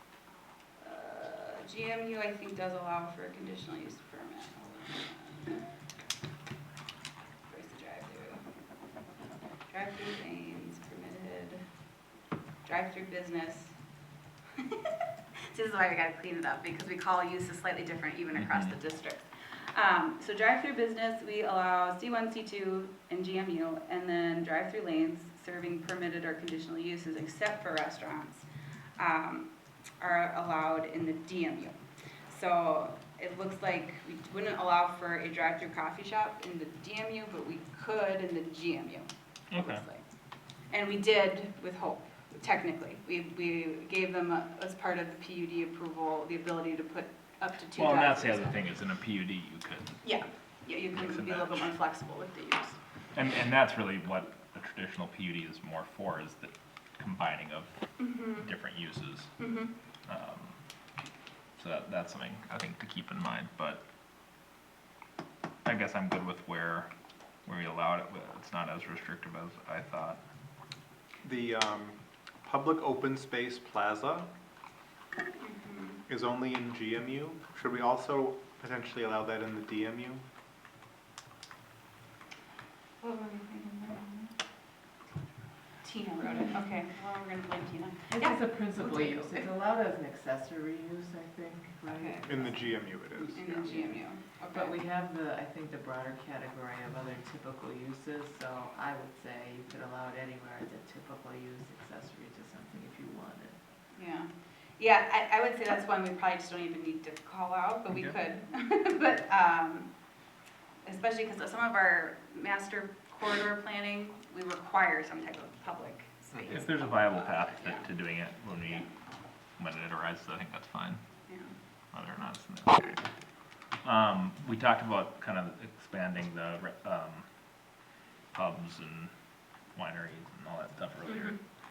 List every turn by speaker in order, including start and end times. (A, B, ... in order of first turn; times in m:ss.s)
0:00.8-0:05.6 A
0:07.5-0:08.4 A
0:09.7-0:11.6 A
0:12.6-0:13.7 A
0:14.6-0:14.9 A
0:15.4-0:28.4 A
0:29.0-0:31.8 A
0:32.3-0:40.0 A
0:39.5-0:39.8 B
0:40.7-0:48.6 A
0:47.8-0:50.0 B
0:50.0-0:52.8 A
0:50.9-0:51.7 B
0:53.1-0:59.3 B
0:58.0-0:58.4 A
0:59.4-0:59.7 A
1:00.1-1:00.6 B
1:01.6-1:03.8 B
1:05.6-1:06.9 B
1:07.4-1:10.2 B
1:11.2-1:14.3 C
1:15.4-1:16.0 A
1:16.1-1:20.2 C
1:23.0-1:24.3 A
1:25.8-1:29.4 A
1:28.1-1:32.6 D
1:31.9-1:32.2 A
1:32.3-1:33.7 C
1:33.3-1:34.8 A
1:33.6-1:33.9 D
1:34.5-1:43.6 D
1:43.9-1:49.9 A
1:50.8-1:57.8 A
1:56.4-1:58.9 B
1:59.6-2:01.0 B
2:01.3-2:01.5 A
2:01.9-2:02.9 B
2:03.8-2:07.2 B
2:08.3-2:09.1 B
2:09.7-2:11.4 B
2:11.1-2:11.3 A